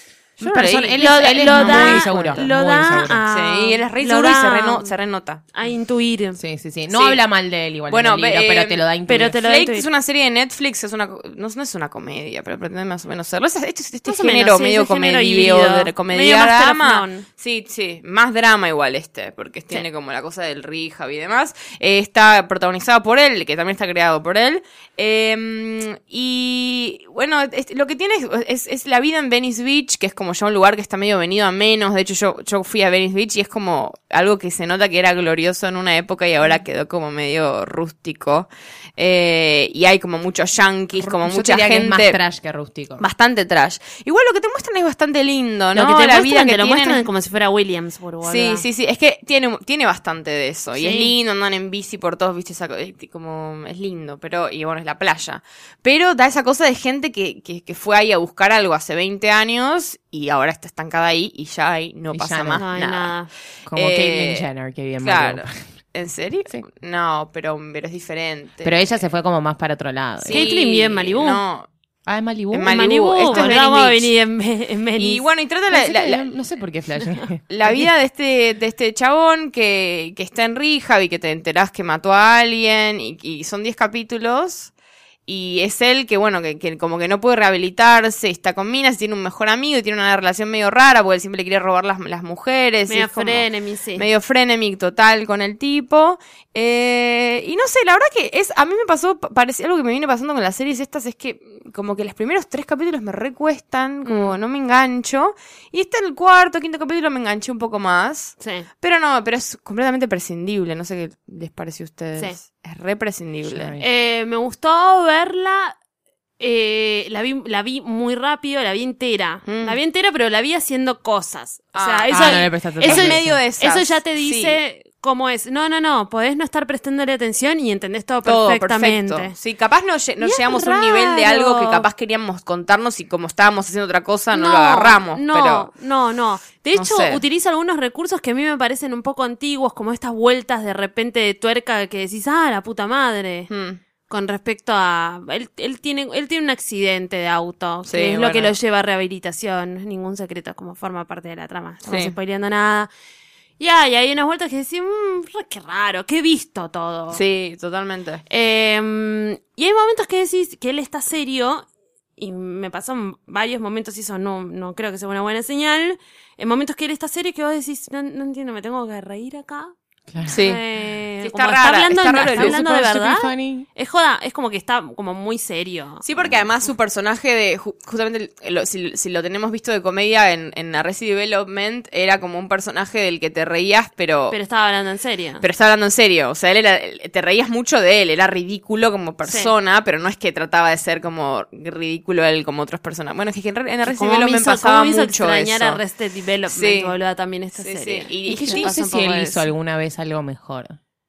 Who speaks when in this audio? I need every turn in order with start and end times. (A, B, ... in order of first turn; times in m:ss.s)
0:00.4-0:02.4 A
0:00.4-0:03.2 B
0:01.0-0:04.9 C
0:03.3-0:05.5 A
0:05.5-0:06.4 C
0:06.4-0:09.4 B
0:06.9-0:07.2 A
0:07.9-0:08.8 A
0:09.1-0:09.9 C
0:09.4-0:42.2 A
0:14.1-0:17.2 C
0:41.0-0:43.0 B
0:43.0-0:47.1 A
0:45.8-0:48.6 C
0:48.2-1:03.1 A
0:50.8-0:51.1 C
1:02.1-1:02.8 B
1:02.6-1:03.3 C
1:03.7-1:05.5 B
1:03.7-1:04.5 A
1:05.0-1:09.0 A
1:08.6-1:10.5 B
1:10.2-1:11.7 A
1:10.3-1:11.4 C
1:12.1-1:12.8 B
1:12.5-1:14.1 A
1:12.7-1:15.2 C
1:15.0-1:16.3 A
1:15.7-1:17.9 B
1:17.5-1:24.7 A
1:25.3-1:53.8 A
1:32.9-1:34.1 C
1:44.0-1:44.4 C
1:48.4-1:48.7 C
1:53.4-1:53.8 B
1:53.8-1:55.8 C
1:56.4-2:09.3 C
1:59.5-1:59.8 A
2:01.7-2:04.6 A
2:02.1-2:03.4 B
2:08.2-2:15.7 A
2:10.2-2:11.8 C
2:14.3-2:23.5 C
2:16.8-2:17.2 A
2:23.5-2:23.8 A
2:24.1-2:32.9 C
2:27.9-2:28.6 A
2:31.8-2:32.1 A
2:33.6-2:37.2 C
2:37.1-2:38.2 A
2:38.3-2:49.7 C
2:50.1-2:50.4 B
2:50.3-2:56.0 C
2:50.3-2:50.6 A
2:51.2-2:52.6 A
2:52.2-2:53.7 B
2:56.0-3:04.4 A
3:04.3-3:05.4 C
3:05.4-3:15.8 A
3:09.2-3:09.5 C
3:13.8-3:19.0 C
3:16.5-3:16.9 A
3:17.6-3:19.5 A
3:18.3-3:20.8 B